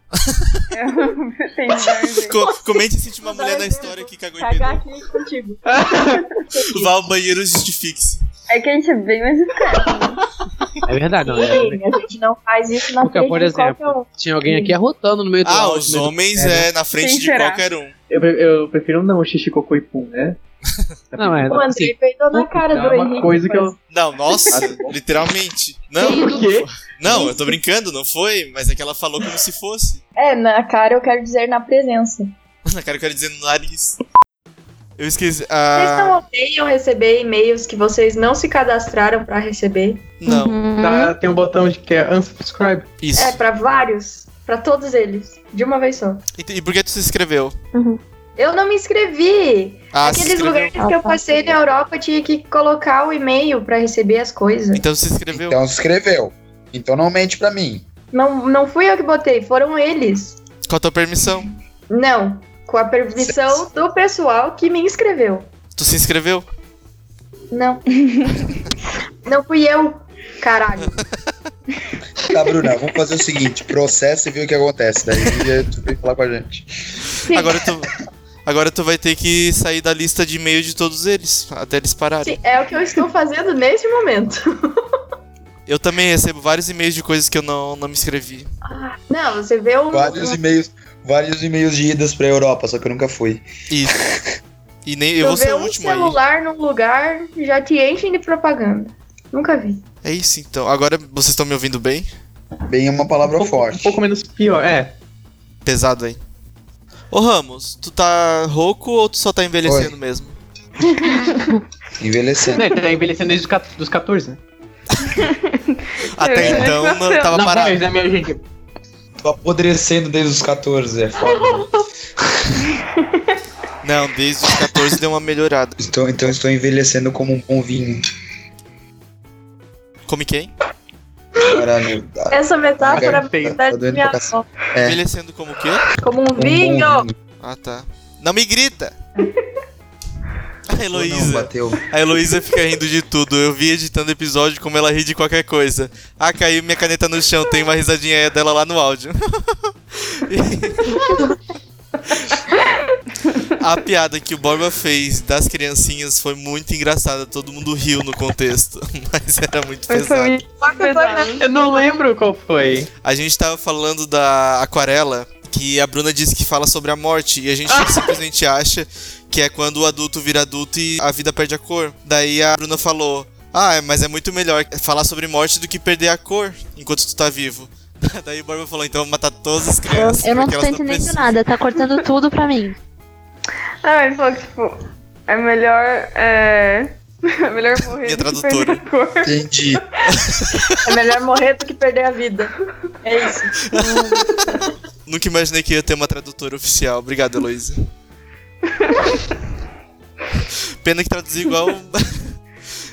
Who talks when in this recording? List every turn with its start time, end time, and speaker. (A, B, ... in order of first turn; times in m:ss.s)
0:00.2-0:00.6 A
0:00.7-0:02.4 B
0:02.2-0:04.9 A
0:02.4-0:07.0 C
0:05.7-0:06.2 D
0:06.7-0:08.2 A
0:08.5-0:10.2 B
0:10.8-0:11.8 E
0:11.2-0:14.8 C
0:11.3-0:11.6 D
0:13.0-0:16.7 E
0:15.4-0:17.9 A
0:17.0-0:17.7 B
0:18.1-0:20.4 D
0:21.1-0:21.7 D
0:21.2-0:21.9 E
0:21.5-0:23.7 C
0:22.3-0:23.8 D
0:23.9-0:30.0 A
0:24.4-0:24.7 C
0:24.4-0:25.0 D
0:26.0-0:27.2 D
0:26.0-0:26.4 E
0:27.1-0:27.6 C
0:30.2-0:32.3 C
0:32.6-0:34.0 A
0:35.0-0:36.2 A
0:35.7-0:40.1 C
0:40.2-0:40.6 A
0:40.2-0:41.2 F
0:40.8-0:42.9 D
0:43.0-0:43.5 A
0:43.1-0:46.2 C
0:46.3-0:47.6 A
0:47.7-0:48.0 F
0:48.4-0:54.8 C
0:49.9-0:50.8 A
0:50.8-0:51.6 F
0:54.7-0:55.6 A
0:55.3-0:57.8 G
0:58.1-1:00.4 C
1:00.7-1:01.4 A
1:01.9-1:05.5 C
1:05.7-1:06.5 A
1:07.5-1:07.8 C
1:09.2-1:11.0 C
1:12.3-1:16.7 G
1:17.3-1:17.6 C
1:17.3-1:22.4 A
1:22.2-1:24.5 C
1:25.6-1:28.5 A
1:28.7-1:30.4 C
1:29.9-1:33.4 G
1:33.7-1:34.0 A
1:34.8-1:36.2 A
1:35.2-1:39.8 C
1:40.0-1:42.1 A
1:42.7-1:44.0 G
1:43.2-1:44.9 D
1:45.6-1:46.2 A
1:47.1-1:50.4 A
1:49.6-1:50.0 G
1:52.0-1:52.6 G
1:52.5-1:54.4 D
1:55.2-1:57.4 B
1:56.2-1:57.8 A
1:56.3-1:56.8 G
1:57.3-1:58.4 D
1:59.2-2:01.7 G
2:03.8-2:05.8 A
2:05.8-2:08.0 G
2:10.1-2:10.5 A
2:11.5-2:15.0 G
2:12.3-2:14.5 C
2:12.8-2:13.6 D
2:14.8-2:15.9 A
2:16.0-2:17.1 C
2:16.4-2:17.2 G
2:17.4-2:18.9 A
2:20.7-2:31.1 A
2:20.9-2:21.8 G
2:33.6-2:40.4 A
2:39.9-2:41.4 B
2:40.4-2:41.4 C
2:41.3-2:42.9 D
2:43.0-3:01.4 A
2:47.7-2:48.2 D
2:59.9-3:02.8 F
3:03.8-3:04.7 B
3:05.3-3:09.4 B
3:07.8-3:08.8 A
3:09.2-3:09.8 G
3:10.8-3:13.5 C
3:13.7-3:17.8 A
3:18.8-3:19.2 B
3:20.8-3:22.4 A